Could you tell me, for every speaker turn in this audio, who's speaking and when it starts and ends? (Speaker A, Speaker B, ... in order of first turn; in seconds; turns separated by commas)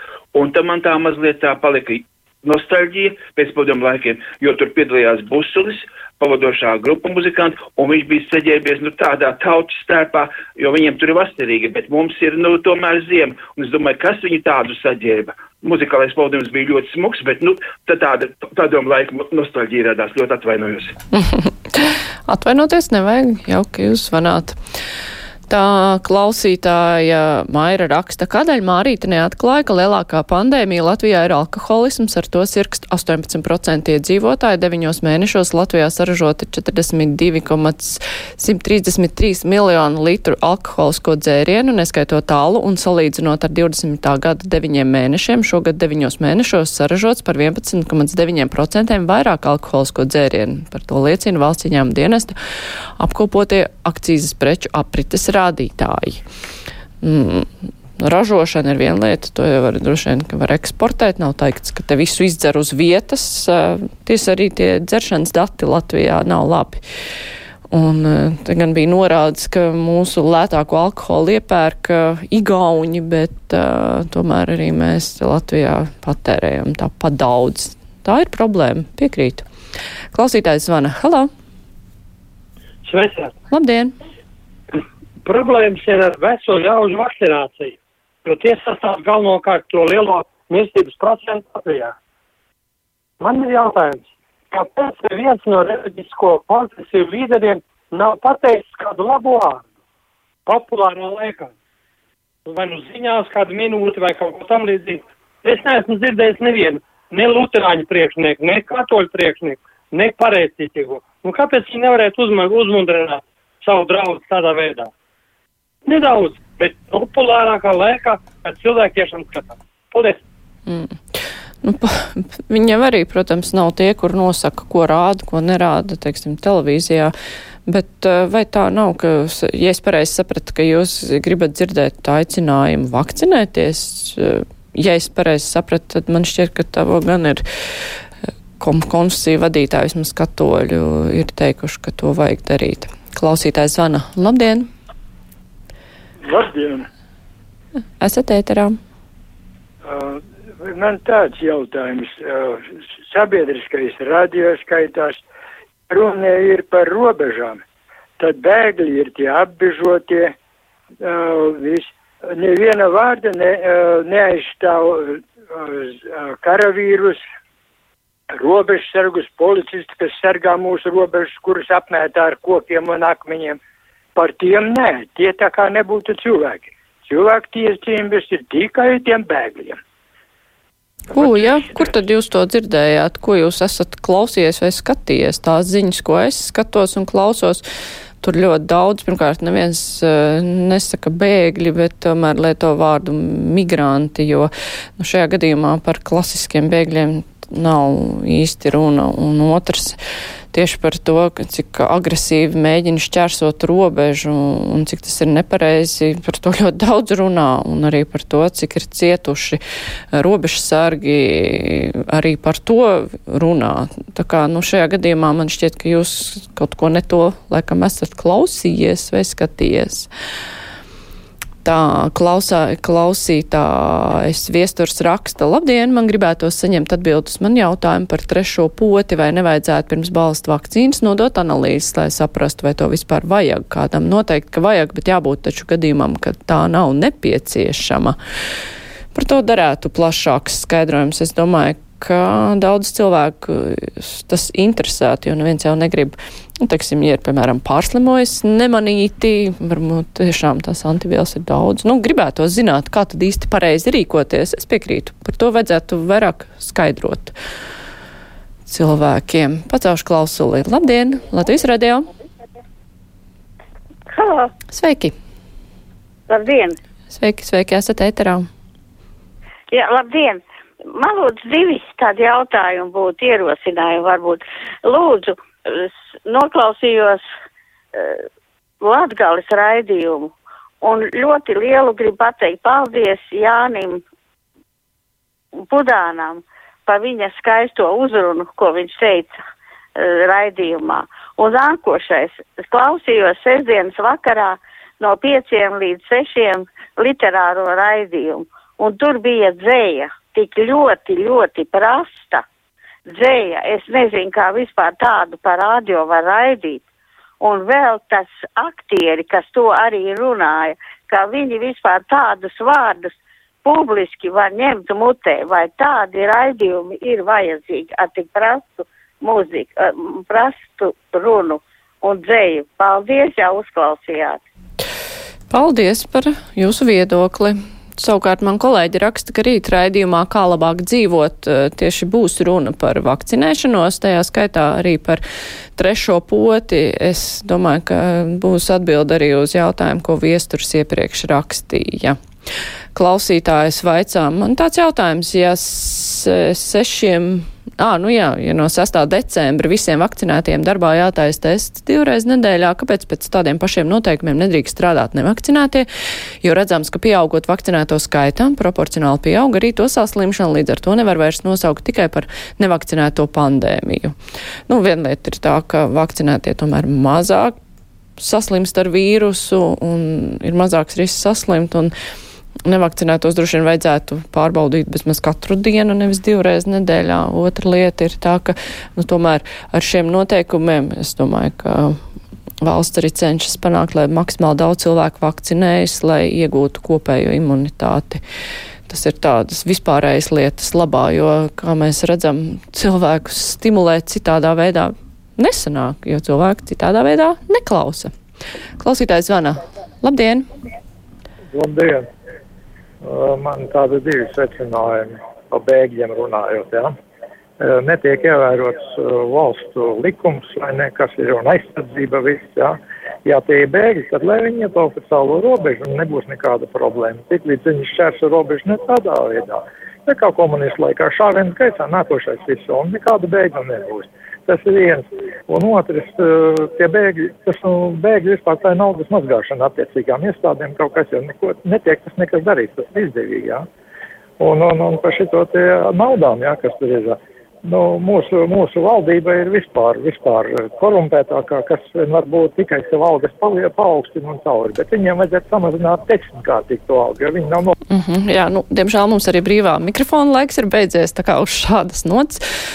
Speaker A: 0.3-20.9, Speaker B: 21.2-24.6, Speaker B: 25.5-52.3, Speaker B: 53.0-56.2, Speaker B: 57.0-57.5, Speaker B: 58.0-66.8, Speaker B: 67.7-79.4, Speaker B: 80.1-81.3, Speaker C: 82.8-83.3, Speaker B: 83.5-83.9, Speaker C: 85.2-91.9, Speaker C: 93.2-99.6, Speaker C: 100.5-101.5, Speaker C: 102.5-114.9, Speaker C: 115.8-120.2, Speaker B: 120.7-127.1, Speaker B: 127.7-137.4, Speaker B: 138.6-144.7, Speaker D: 146.2-146.9, Speaker B: 148.0-148.8, Speaker D: 149.8-155.2, Speaker D: 155.9-157.6, Speaker D: 158.2-160.3, Speaker D: 161.0-167.2, Speaker D: 168.4-173.6, Speaker D: 174.2-179.8, Speaker B: 181.1-187.6, Speaker B: 188.2-200.0, Speaker B: 200.5-209.6, Speaker B: 210.1-220.1, Speaker B: 221.6-238.2, Speaker B: 239.1-257.3, Speaker B: 258.7-262.1, Speaker E: 264.1-264.5, Speaker B: 264.7-265.1, Speaker E: 266.3-266.8, Speaker B: 267.1-268.4, Speaker E: 269.7-270.4, Speaker E: 270.9-277.2, Speaker E: 277.9-278.2, Speaker E: 278.8-284.0, Speaker E: 285.7-289.3, Speaker E: 290.0-302.4, Speaker E: 303.1-306.8, Speaker E: 307.4-313.1, Speaker E: 313.6-324.4, Speaker B: 325.5-335.2, Speaker B: 335.8-342.2, Speaker B: 342.9-355.9, Speaker B: 356.4-364.1, Speaker B: 364.7-367.5, Speaker B: 368.2-371.9, Speaker B: 372.6-381.9, Speaker B: 382.6-388.2, Speaker B: 388.9-398.1, Speaker B: 398.8-400.4, Speaker F: 401.5-402.1, Speaker F: 403.0-406.9, Speaker F: 407.6-433.6, Speaker F: 434.4-447.7, Speaker B: 447.9-452.4